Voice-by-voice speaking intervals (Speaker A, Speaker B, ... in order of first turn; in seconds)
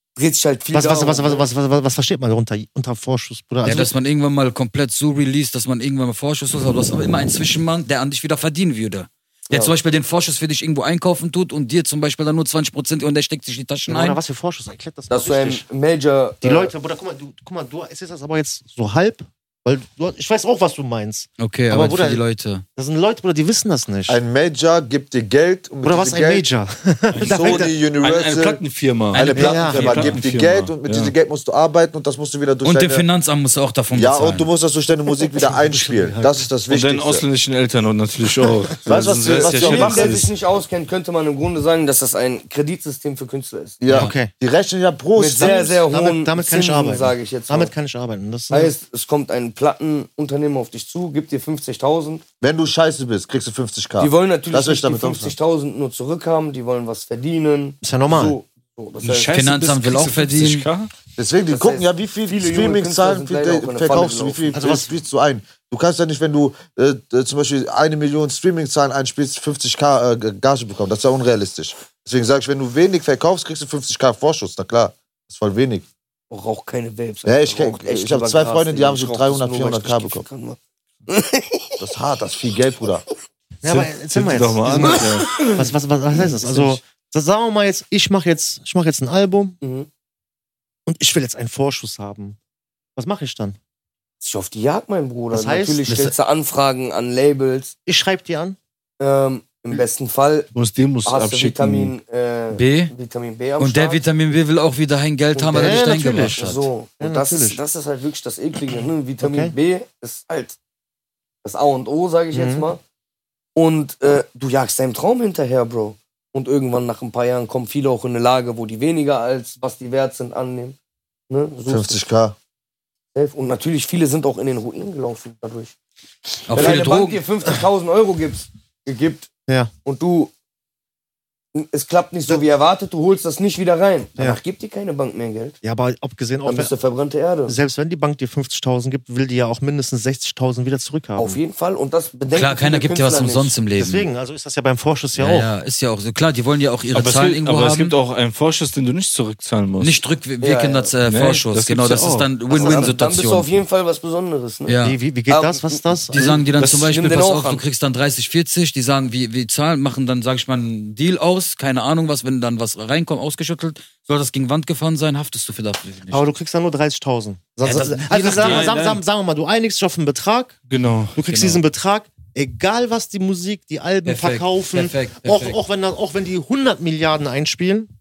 Speaker A: 0.1-1.4, 15.1-16.7, 39.2-43.8, 45.1-47.7, 48.5-52.2, 54.0-59.3, 61.5-64.5, 76.3-81.8, 84.8-85.7, 89.6-89.9, 94.2-97.7, 99.0-100.5, 101.0-104.0, 105.3-110.6, 111.4-112.8, 113.5-120.8, 121.3-122.0, 123.1-125.7, 126.5-129.3, 129.8-130.3, 131.5-135.6, 136.4-137.6, 141.2-143.5, 150.4-150.9, 152.5-154.7, 155.3-155.9, 156.7-157.6
Speaker B: 0.7-3.9, 13.9-15.6, 16.4-22.2, 22.8-24.2, 25.8-27.7, 29.3-29.8, 35.3-36.5, 43.9-44.3, 45.6-48.7, 57.8-58.4, 64.5-64.9, 83.6-89.5, 90.9-92.4, 93.0-93.6, 95.3-95.8, 97.9-98.6, 105.5-106.5, 107.0-107.6, 109.2-109.5, 112.3-112.7, 135.6-136.7, 137.4-141.4, 143.8-145.5, 154.8-156.4, 166.1-170.6, 171.1-177.9
Speaker C: 3.6-14.2, 21.4-22.6, 29.1-30.2, 32.6-34.5, 59.3-60.6, 95.9-96.1, 102.5-102.9, 103.6-106.7, 126.5-127.2, 142.3-144.1, 145.2-147.9, 149.8-153.5, 154.7-155.0, 156.1-166.3, 167.6-168.9, 171.2-171.6, 174.0-175.6
Speaker D: 24.1-26.4, 27.2-33.0, 33.9-37.2, 38.8-40.2, 43.8-45.8, 52.4-55.3, 61.2-75.8, 77.2-80.2, 81.8-83.0, 121.7-122.4
Speaker E: 27.1-31.1, 36.7-40.3, 59.0-60.9, 83.6-85.5, 86.3-86.8, 100.5-101.9, 146.9-150.0, 151.1-152.3, 156.2-156.9, 168.4-169.0, 170.7-171.2